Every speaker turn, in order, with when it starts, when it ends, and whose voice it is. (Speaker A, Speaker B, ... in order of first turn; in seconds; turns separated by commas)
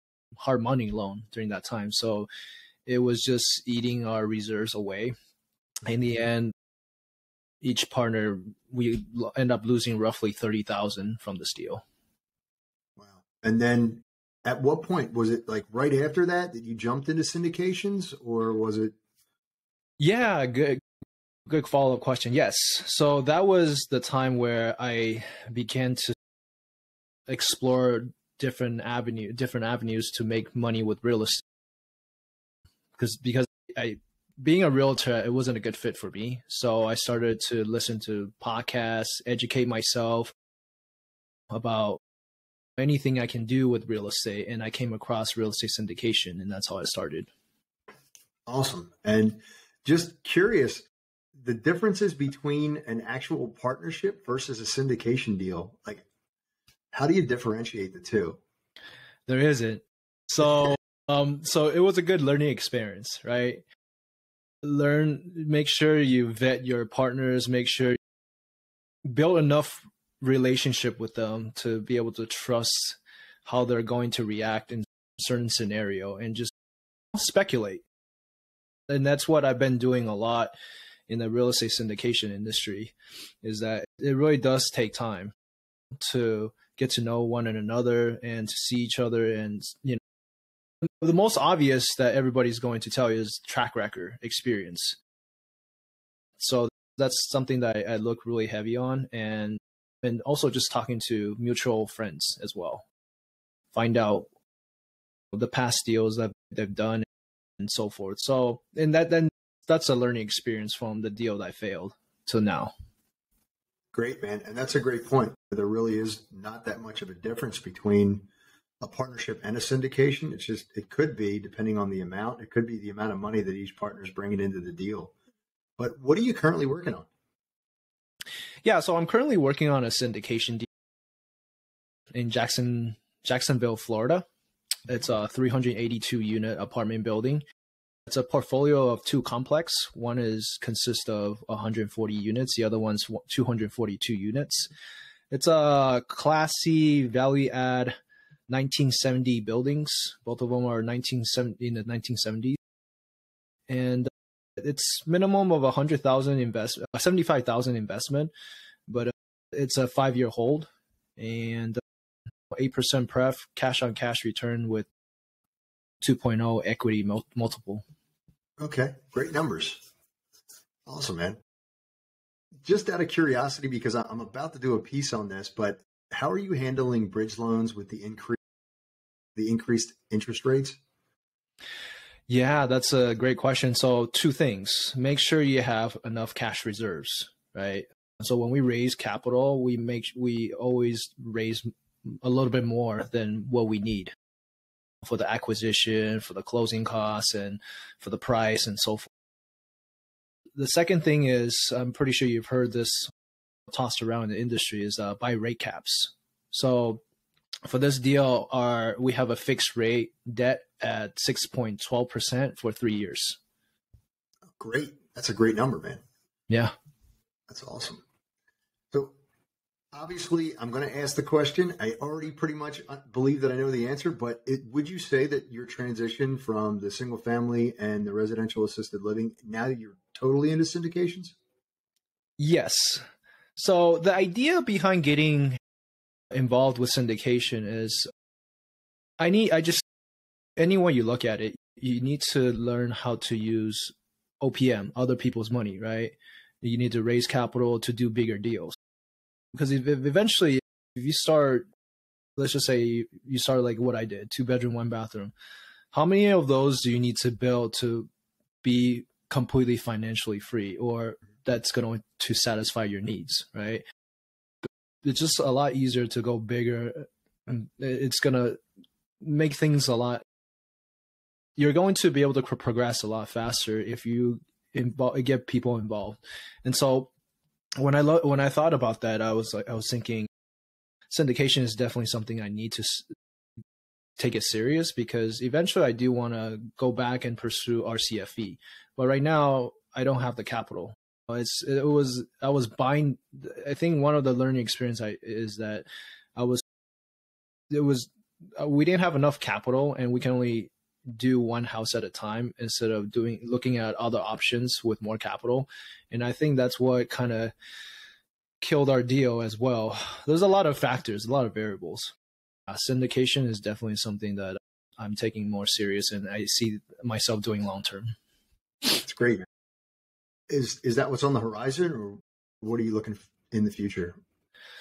Speaker A: 0.4-2.3, Speaker A: 2.9-5.1, Speaker A: 5.9-6.5, Speaker A: 7.6-11.8, Speaker B: 13.0-18.9, Speaker A: 20.0-20.8, Speaker A: 21.5-26.1, Speaker A: 27.3-31.4, Speaker A: 33.0-40.3, Speaker A: 41.5-42.0, Speaker A: 42.8-47.3, Speaker B: 48.5-56.0, Speaker B: 56.9-58.4, Speaker A: 59.3-63.6, Speaker A: 64.6-68.0, Speaker A: 69.1-76.5, Speaker A: 77.1-77.8, Speaker A: 78.9-80.5, Speaker A: 81.1-85.3, Speaker A: 86.0-90.0, Speaker A: 91.0-95.0, Speaker A: 96.4-102.8, Speaker A: 103.7-104.3, Speaker A: 105.3-107.0, Speaker A: 107.6-112.7, Speaker B: 113.9-118.3, Speaker B: 118.8-125.1, Speaker B: 125.8-127.1, Speaker A: 128.6-130.7, Speaker A: 132.1-134.3, Speaker A: 134.9-137.4, Speaker A: 138.1-144.7, Speaker A: 145.3-147.9, Speaker A: 148.5-152.6, Speaker A: 153.7-158.3, Speaker A: 158.9-161.8, Speaker A: 162.5-164.9, Speaker A: 166.0-167.8, Speaker B: 168.6-169.8, Speaker B: 170.8-171.4, Speaker B: 172.6-178.4, Speaker B: 179.3-180.8, Speaker A: 182.3-194.1, Speaker A: 195.0-199.1, Speaker A: 200.6-203.1, Speaker A: 203.7-207.0, Speaker A: 207.7-213.4, Speaker B: 214.6-216.0, Speaker A: 216.5-216.7, Speaker B: 217.5-218.0, Speaker B: 219.9-231.3, Speaker A: 232.4-233.0, Speaker A: 233.6-235.6, Speaker A: 236.3-238.1, Speaker A: 239.2-239.8, Speaker A: 240.6-248.7, Speaker A: 249.5-251.7, Speaker A: 252.4-255.3, Speaker A: 255.9-258.1, Speaker A: 258.6-263.8, Speaker A: 265.0-268.6, Speaker A: 269.2-270.2, Speaker A: 271.6-277.1, Speaker A: 277.8-280.3, Speaker A: 281.1-283.1, Speaker A: 284.2-296.6, Speaker A: 297.7-307.5, Speaker A: 308.6-312.1, Speaker A: 312.7-318.1, Speaker B: 318.9-319.4, Speaker B: 320.5-324.2